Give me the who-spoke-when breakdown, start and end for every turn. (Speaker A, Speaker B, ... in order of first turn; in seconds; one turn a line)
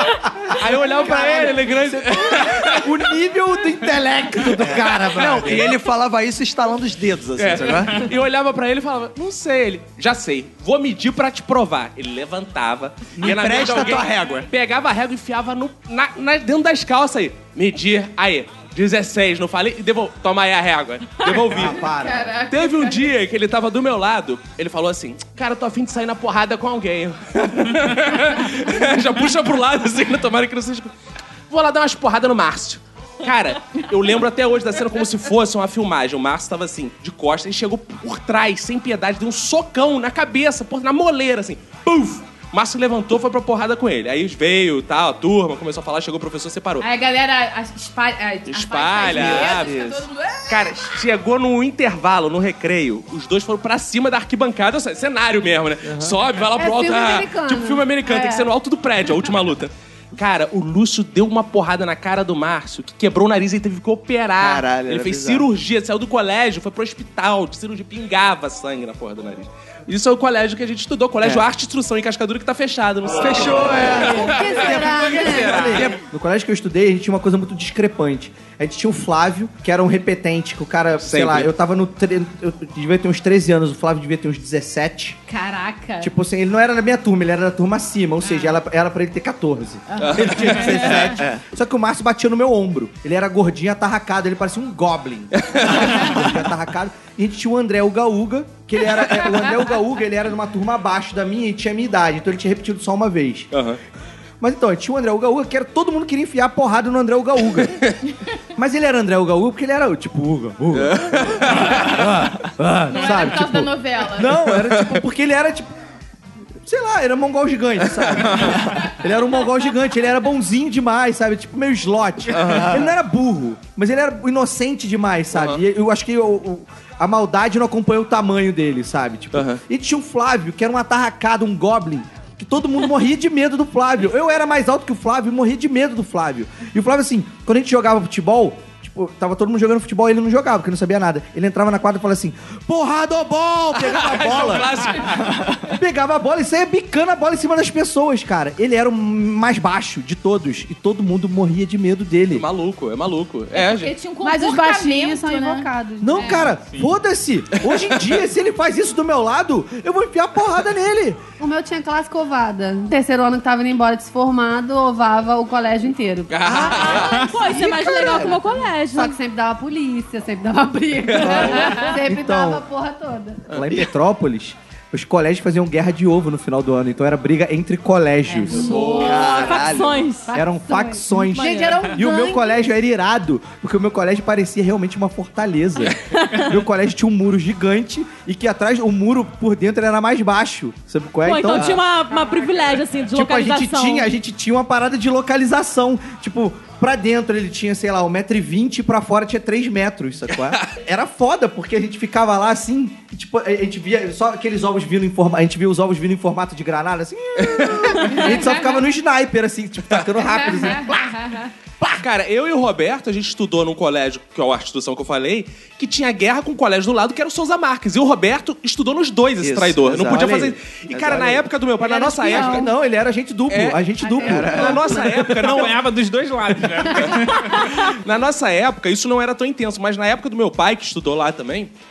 Speaker A: 0.5-2.9
Speaker B: 1.0-5.7
Speaker C: 1.1-1.4
Speaker D: 4.6-8.1
Speaker A: 7.4-21.9
Speaker D: 13.2-14.5
Speaker B: 21.4-22.3
Speaker E: 21.9-23.1
Speaker A: 22.5-30.9
Speaker A: 31.5-46.9
Speaker E: 46.8-50.7
Speaker A: 48.5-74.5
Speaker D: 49.1-49.9
Speaker C: 56.5-58.5
Speaker D: 64.4-65.5
Speaker D: 73.2-76.0
Speaker C: 74.0-75.6
Speaker B: 74.6-85.2
Speaker F: 74.8-75.8
Speaker A: 81.0-81.5
Speaker E: 85.3-86.1
Speaker B: 86.0-103.5
Speaker E: 88.2-88.5
Speaker E: 89.9-91.1
Speaker A: 90.0-91.0
Speaker D: 90.9-91.4
Speaker A: 95.4-96.1
Speaker A: 103.5-103.8
Speaker B: 104.4-107.8
Speaker B: 108.5-115.7
Speaker A: 110.7-112.0
Speaker E: 112.9-114.3
Speaker A: 114.4-115.0
Speaker B: 116.6-144.8
Speaker D: 118.2-118.8
Speaker D: 122.3-122.9
Speaker A: 122.4-122.6
Speaker A: 125.3-125.6
Speaker A: 129.3-129.6
Speaker A: 143.8-145.2
Speaker D: 145.0-145.7
Speaker B: 145.7-152.4
Speaker A: 152.3-153.9
Speaker E: 153.5-156.5
Speaker C: 154.2-156.5
Speaker B: 156.0-161.2
Speaker F: 156.7-156.9
Speaker C: 161.4-173.4
Speaker A: 166.3-167.2
Speaker G: 166.5-169.1
Speaker B: 167.9-168.3
Speaker A: 171.1-171.6
Speaker B: 171.2-172.6
Speaker B: 173.5-179.1
Speaker C: 178.3-179.3
Speaker E: 178.5-179.3
Speaker D: 178.5-180.1
Speaker G: 178.7-180.4
Speaker C: 180.3-182.7
Speaker B: 180.3-191.8
Speaker G: 181.2-182.0
Speaker G: 186.1-186.4
Speaker G: 191.2-194.1
Speaker C: 192.1-192.5
Speaker B: 193.1-212.0
Speaker A: 207.4-207.8
Speaker E: 208.0-208.8
Speaker E: 210.2-211.4
Speaker A: 212.0-222.7
Speaker D: 219.4-221.4
Speaker B: 220.0-220.5
Speaker B: 221.8-225.7
Speaker C: 221.9-222.7
Speaker A: 223.5-225.8
Speaker C: 224.0-225.0
Speaker D: 224.2-224.9
Speaker F: 225.3-227.8
Speaker A: 227.6-231.7